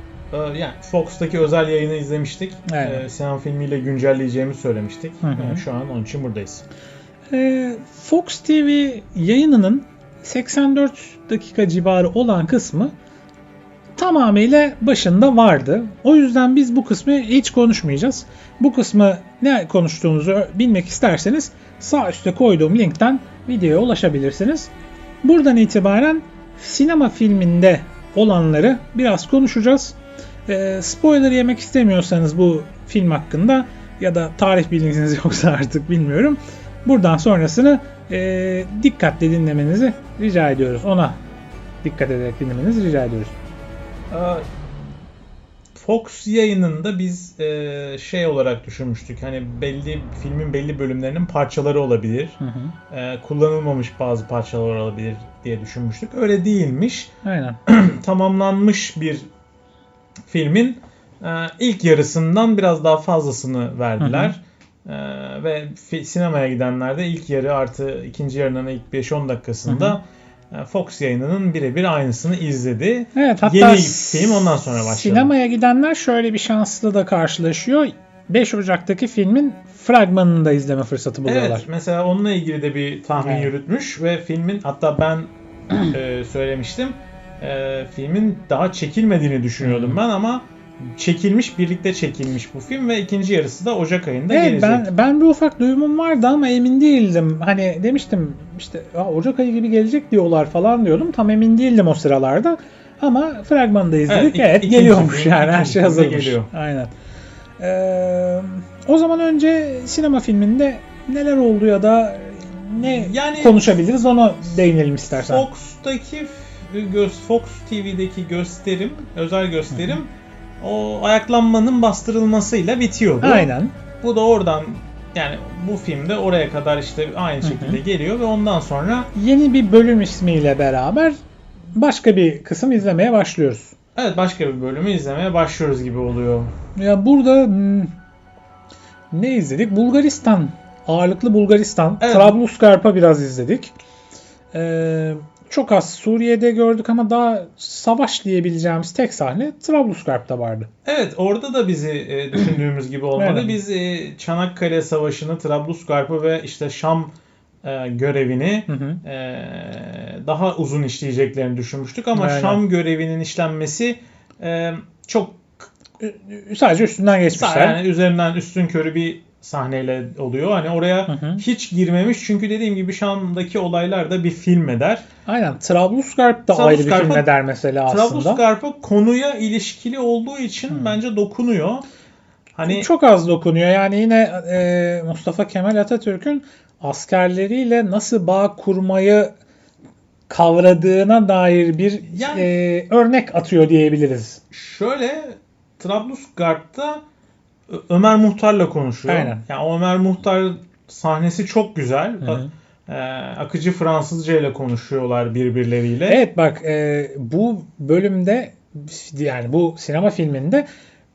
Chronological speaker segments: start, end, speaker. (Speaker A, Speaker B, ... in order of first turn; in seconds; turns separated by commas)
Speaker A: 0.3-6.6, Speaker B: 2.7-3.0, Speaker B: 5.2-5.6, Speaker B: 7.3-12.9, Speaker B: 14.0-24.7, Speaker B: 25.2-29.9, Speaker B: 30.5-41.2, Speaker B: 41.8-43.3, Speaker A: 44.1-45.0, Speaker A: 45.7-52.4, Speaker B: 52.4-52.7, Speaker A: 52.9-57.1, Speaker B: 57.2-57.6, Speaker A: 57.6-59.3, Speaker A: 60.3-75.3, Speaker B: 64.0-64.3, Speaker B: 69.7-70.0, Speaker B: 73.1-81.6, Speaker A: 81.2-85.3, Speaker B: 83.2-83.5, Speaker A: 85.8-94.9, Speaker B: 89.6-90.0, Speaker B: 94.3-106.9, Speaker A: 104.1-106.5, Speaker B: 107.6-115.4, Speaker A: 112.8-113.7, Speaker A: 115.1-129.1, Speaker B: 119.7-120.0, Speaker B: 123.2-123.8, Speaker B: 127.4-127.8, Speaker B: 129.1-131.2, Speaker B: 131.7-133.7, Speaker A: 133.9-136.5, Speaker B: 136.8-137.9, Speaker B: 139.1-143.7, Speaker A: 142.0-142.4, Speaker B: 144.5-150.7, Speaker A: 150.8-165.7, Speaker B: 153.2-153.6, Speaker B: 158.7-159.0, Speaker B: 162.1-162.6, Speaker B: 166.0-167.8, Speaker A: 167.3-175.0, Speaker B: 171.1-171.4, Speaker B: 175.2-178.4, Speaker A: 176.5-177.3, Speaker A: 177.9-181.8, Speaker A: 182.5-182.9, Speaker B: 182.6-189.3, Speaker B: 190.3-194.4, Speaker A: 192.1-192.5, Speaker A: 194.5-197.0, Speaker A: 197.7-206.2, Speaker B: 199.1-199.4, Speaker B: 202.2-202.5, Speaker B: 206.1-210.7